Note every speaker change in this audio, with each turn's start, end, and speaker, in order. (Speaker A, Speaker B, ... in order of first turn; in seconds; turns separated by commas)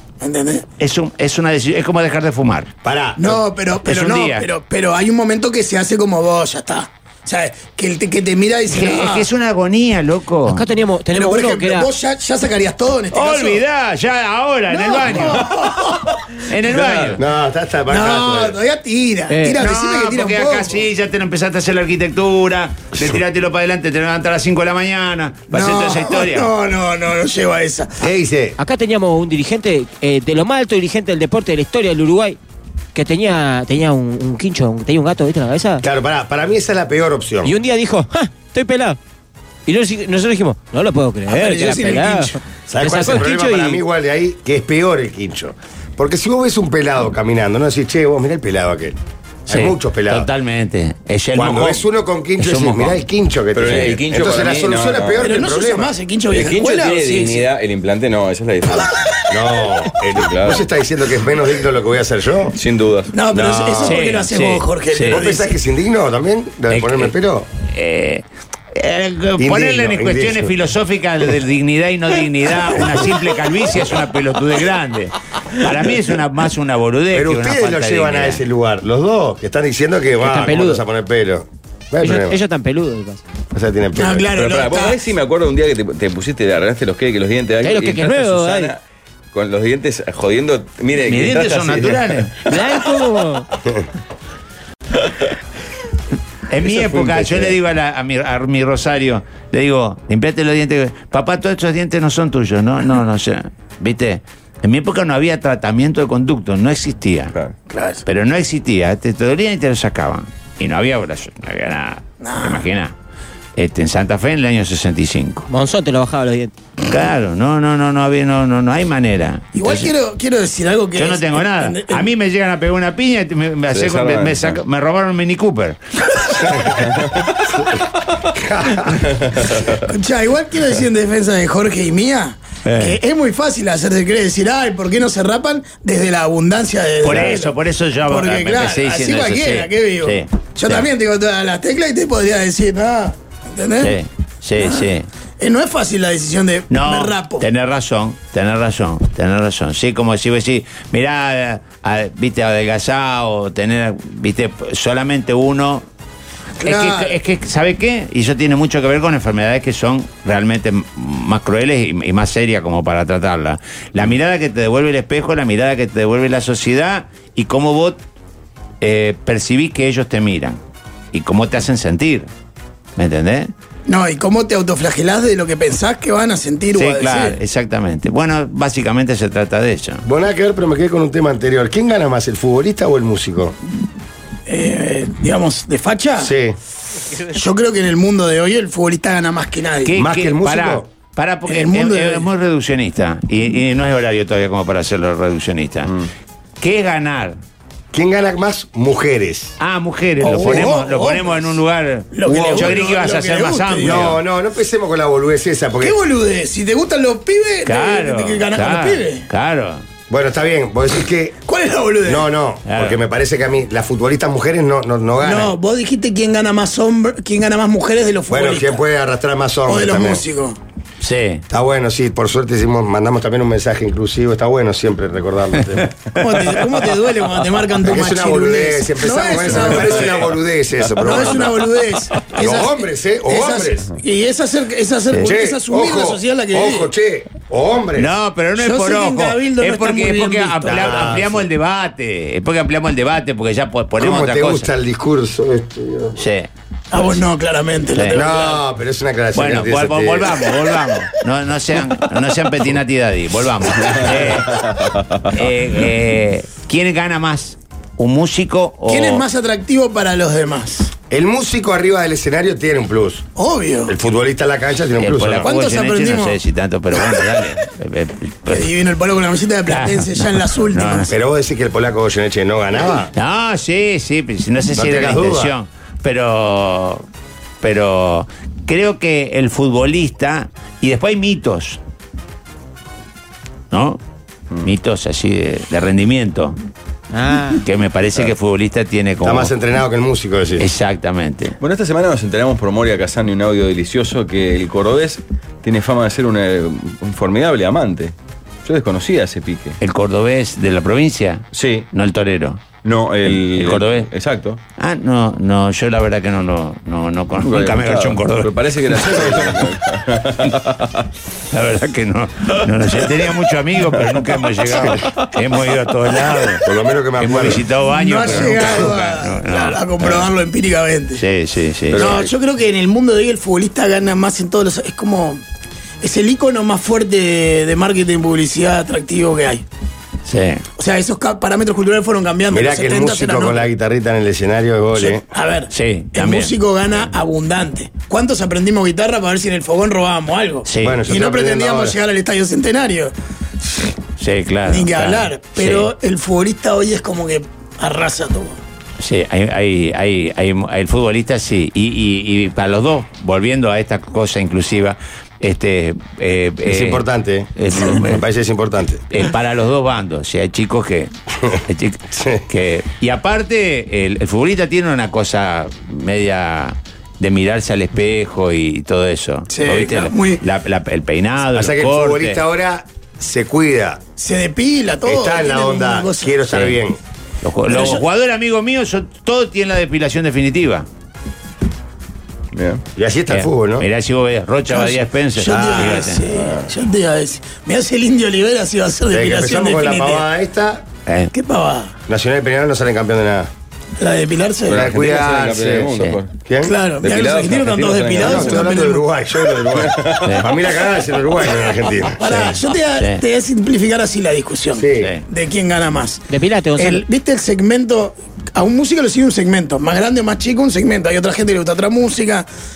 Speaker A: 0.2-0.6, Speaker B: 0.8-2.7, Speaker C: 2.9-3.4, Speaker A: 3.2-9.3, Speaker B: 3.9-4.5, Speaker B: 8.7-10.7, Speaker D: 10.5-11.9, Speaker A: 11.1-13.6, Speaker B: 13.1-15.6, Speaker A: 14.7-16.1, Speaker B: 16.5-17.2, Speaker A: 16.7-17.1, Speaker C: 17.2-18.6, Speaker A: 17.9-20.8, Speaker D: 19.3-19.6, Speaker B: 19.5-26.5, Speaker A: 25.5-28.0, Speaker C: 28.0-28.6, Speaker D: 28.6-32.4, Speaker D: 33.0-35.8, Speaker C: 35.8-37.5, Speaker D: 37.4-39.0, Speaker D: 39.7-43.8, Speaker A: 41.3-42.4, Speaker C: 42.7-49.0, Speaker C: 49.5-50.3, Speaker B: 49.5-51.8, Speaker C: 51.4-55.9, Speaker B: 52.4-53.0, Speaker E: 53.5-55.3, Speaker B: 53.7-53.9, Speaker A: 55.2-57.4, Speaker E: 56.3-58.9, Speaker C: 59.3-62.5, Speaker E: 60.1-60.7, Speaker E: 62.6-63.1, Speaker A: 63.1-65.5, Speaker C: 63.3-64.0, Speaker B: 63.8-65.3, Speaker C: 65.1-67.5, Speaker B: 66.7-78.4, Speaker C: 69.4-70.5, Speaker C: 77.1-82.4, Speaker D: 80.2-80.8, Speaker D: 82.0-83.2, Speaker C: 83.5-84.3, Speaker A: 84.0-85.0, Speaker E: 84.3-88.8, Speaker D: 87.6-88.7, Speaker E: 89.3-92.2, Speaker B: 91.1-92.3, Speaker D: 92.5-93.5, Speaker B: 96.5-107.3, Speaker E: 96.7-97.5, Speaker A: 107.7-108.0, Speaker B: 108.1-113.0, Speaker A: 112.2-112.7, Speaker B: 113.6-115.5, Speaker D: 115.5-116.5, Speaker B: 116.9-119.9, Speaker A: 119.5-122.0, Speaker B: 121.0-125.8, Speaker E: 123.7-124.6, Speaker C: 128.3-129.0, Speaker E: 129.2-129.7, Speaker A: 129.8-137.5, Speaker B: 132.7-133.0, Speaker B: 137.0-140.9, Speaker A: 138.1-144.0, Speaker B: 143.8-145.1, Speaker A: 144.6-144.9, Speaker A: 145.4-147.4, Speaker B: 146.7-155.9, Speaker A: 156.6-157.2, Speaker B: 156.6-168.0, Speaker B: 168.8-170.6, Speaker B: 171.1-172.3, Speaker B: 173.0-173.5, Speaker A: 173.9-177.4, Speaker B: 176.7-180.1, Speaker C: 180.1-183.6, Speaker A: 184.5-186.3, Speaker C: 186.2-186.6, Speaker A: 187.3-190.0, Speaker B: 189.8-195.9, Speaker C: 190.0-190.9, Speaker A: 191.5-192.3, Speaker B: 196.6-197.4, Speaker C: 197.9-199.6, Speaker B: 199.6-204.2, Speaker A: 200.2-201.5, Speaker C: 200.4-200.7, Speaker A: 202.1-204.1, Speaker C: 202.3-202.8, Speaker C: 203.8-206.0, Speaker A: 205.8-209.3, Speaker B: 207.7-209.8, Speaker C: 210.1-211.3, Speaker A: 211.4-212.3, Speaker C: 212.1-215.5, Speaker B: 212.7-213.0, Speaker A: 215.2-218.8, Speaker C: 218.3-220.2, Speaker A: 219.7-220.6, Speaker B: 221.0-221.4, Speaker C: 221.5-225.9, Speaker A: 226.2-230.2, Speaker C: 227.8-231.6, Speaker A: 231.0-232.7, Speaker C: 232.3-233.9, Speaker A: 233.3-236.9, Speaker C: 235.2-238.1, Speaker B: 238.0-244.7, Speaker A: 238.6-241.1, Speaker C: 240.7-241.4, Speaker C: 244.0-246.2, Speaker B: 246.2-246.5, Speaker A: 246.9-248.6, Speaker B: 247.9-248.3, Speaker C: 248.1-250.3, Speaker B: 249.3-254.6, Speaker E: 253.8-255.2, Speaker B: 255.3-259.2, Speaker A: 258.9-260.9, Speaker C: 261.1-263.2, Speaker A: 263.4-263.9, Speaker C: 263.9-265.5, Speaker B: 265.0-268.7, Speaker A: 265.4-266.4, Speaker A: 268.5-271.1, Speaker B: 269.7-271.1, Speaker C: 271.1-273.1, Speaker B: 273.1-277.1, Speaker C: 274.8-275.5, Speaker B: 277.6-281.8, Speaker B: 283.7-284.0, Speaker B: 284.6-286.6, Speaker D: 287.1-287.6, Speaker B: 287.6-289.5, Speaker C: 289.2-290.7, Speaker B: 290.6-291.6, Speaker E: 291.6-298.1, Speaker E: 298.6-299.8, Speaker B: 299.8-302.6, Speaker E: 301.5-301.9, Speaker E: 302.8-304.6, Speaker B: 303.3-304.1, Speaker B: 304.8-308.5, Speaker E: 307.4-311.1, Speaker B: 311.5-316.6, Speaker E: 314.8-315.2, Speaker C: 316.6-317.6, Speaker B: 317.2-320.2, Speaker A: 317.9-321.2, Speaker C: 318.4-318.7, Speaker B: 321.2-322.1, Speaker E: 321.9-322.3, Speaker A: 321.9-325.4, Speaker A: 326.0-329.6, Speaker B: 330.2-330.6, Speaker A: 330.8-333.7, Speaker C: 332.5-335.2, Speaker A: 335.0-343.1, Speaker B: 335.7-336.5, Speaker B: 340.6-341.1, Speaker C: 340.8-342.0, Speaker B: 344.2-345.9, Speaker A: 344.7-348.6, Speaker B: 349.0-357.1, Speaker C: 356.7-359.0, Speaker B: 357.6-358.2, Speaker B: 359.1-361.1, Speaker B: 361.7-372.4, Speaker C: 362.1-362.4, Speaker A: 369.5-370.4, Speaker C: 371.5-374.0, Speaker A: 374.2-376.3, Speaker C: 375.1-377.0, Speaker B: 376.5-376.8, Speaker B: 377.4-380.9, Speaker A: 377.7-378.0, Speaker E: 382.5-382.8, Speaker C: 383.0-383.9, Speaker B: 383.3-386.3, Speaker A: 384.7-390.3, Speaker C: 385.5-386.1, Speaker E: 386.4-386.7, Speaker C: 389.1-390.9, Speaker B: 391.1-391.3, Speaker A: 391.3-391.9, Speaker C: 392.1-393.5, Speaker A: 394.0-394.8, Speaker E: 394.7-396.3, Speaker C: 394.7-395.9, Speaker B: 395.9-396.2, Speaker C: 396.5-396.7, Speaker A: 396.6-399.1, Speaker E: 397.0-398.7, Speaker C: 398.2-402.2, Speaker E: 399.7-400.4, Speaker B: 400.2-400.5, Speaker A: 402.2-406.2, Speaker B: 402.2-403.2, Speaker C: 404.8-405.1, Speaker D: 406.3-407.0, Speaker A: 406.8-412.5